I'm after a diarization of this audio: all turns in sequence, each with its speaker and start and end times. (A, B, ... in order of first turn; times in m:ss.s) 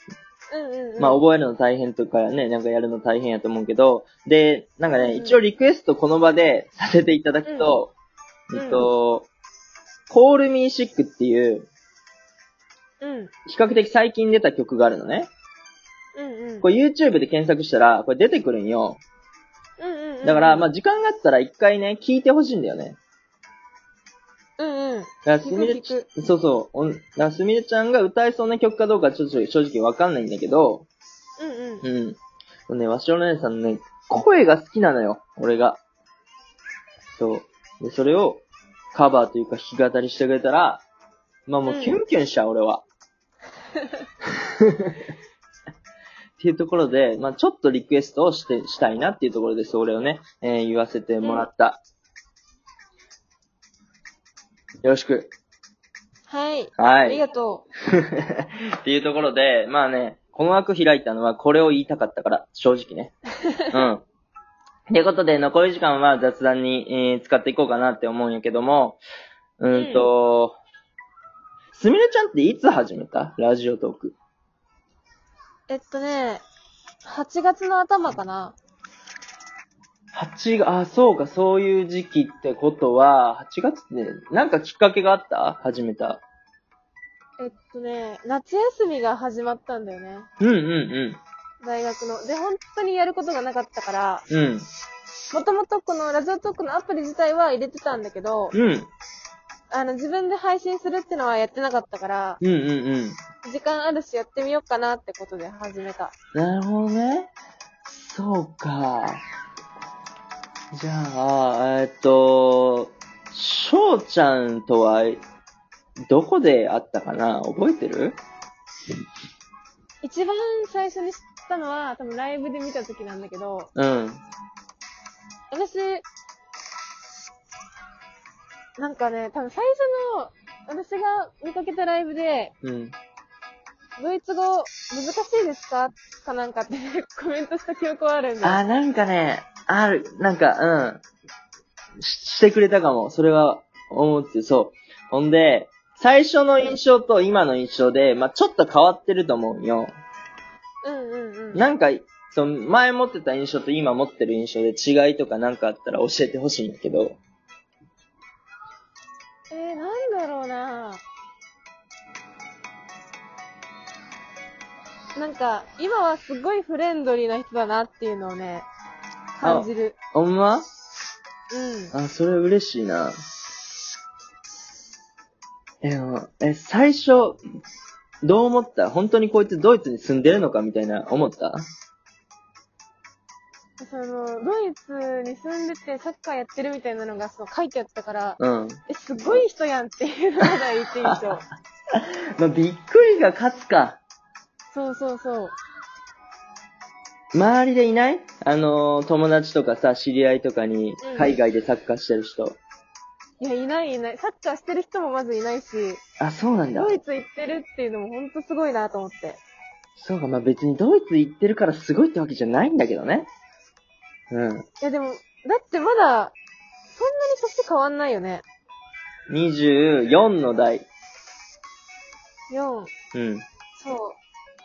0:00.5-0:01.2 A
0:01.0-0:07.9 B
0:04.9-0:05.4 A
0:07.4-0:07.7 A
0:08.5-0:09.3 B
0:08.5-0:08.8 A
0:10.1-0:11.7 B
0:13.0-0:13.3 A
0:13.4-0:15.3 B
0:16.1-0:16.7 A
0:16.6-0:19.0 B
0:19.8-0:20.7 A
0:20.2-0:23.0 B
0:24.6-0:26.1 A
0:25.2-0:30.9 B
0:31.4-0:31.8 A
0:31.8-0:35.8 B
0:37.2-0:40.8 B
0:41.5-0:42.8 B
0:41.6-0:42.0 A
0:44.6-0:45.0 B
0:46.4-0:51.8 B
0:54.8-0:55.3 B
0:56.3-0:57.6 A
0:56.8-0:57.2 B
0:57.9-1:03.1 B
1:03.5-1:03.7 A
1:03.7-1:04.0 B
1:04.9-1:09.0 B
1:09.6-1:10.6 B
1:09.7-1:10.1 A
1:11.7-1:14.2 B
1:15.7-1:16.4 A
1:17.0-1:18.6 A
1:20.1-1:26.2 B
1:27.4-1:30.3 A
1:30.4-1:31.2 B
1:31.6-1:34.2 A
1:34.3-1:34.6 B
1:35.3-1:38.6 A
1:38.5-1:38.9 B
1:39.7-1:42.4 A
1:42.4-1:43.2 B
1:43.4-1:46.1 A
1:46.3-1:47.3 B
1:47.8-1:49.2 B
1:50.7-1:55.2 B
1:56.1-1:58.2 B
2:00.0-2:03.7 A
2:03.8-2:04.2 B
2:05.5-2:06.0 A
2:08.8-2:12.5 A
2:12.6-2:12.9 B
2:14.0-2:18.6 A
2:18.4-2:21.0 B
2:22.0-2:29.9 B
2:30.8-2:31.6 A
2:31.5-2:37.2 B
2:39.5-2:41.0 A
2:45.2-2:48.7 A
2:49.4-2:50.0 A
2:49.4-2:50.6 B
2:51.5-2:51.9 A
2:51.9-2:53.2 B
2:55.8-2:57.4 B
2:58.2-3:01.6 B
3:03.8-3:11.4 A
3:08.4-3:08.8 B
3:11.0-3:11.3 B
3:11.9-3:14.0 B
3:14.7-3:15.6 A
3:17.3-3:22.6 B
3:21.0-3:21.4 A
3:23.4-3:26.0 A
3:26.2-3:27.0 B
3:26.7-3:29.4 A
3:30.0-3:33.3 B
3:34.3-3:34.6 B
3:34.8-3:36.3 A
3:36.9-3:38.4 A
3:39.3-3:40.9 B
3:42.5-3:42.9 A
3:43.1-3:43.4 B
3:43.8-3:44.2 A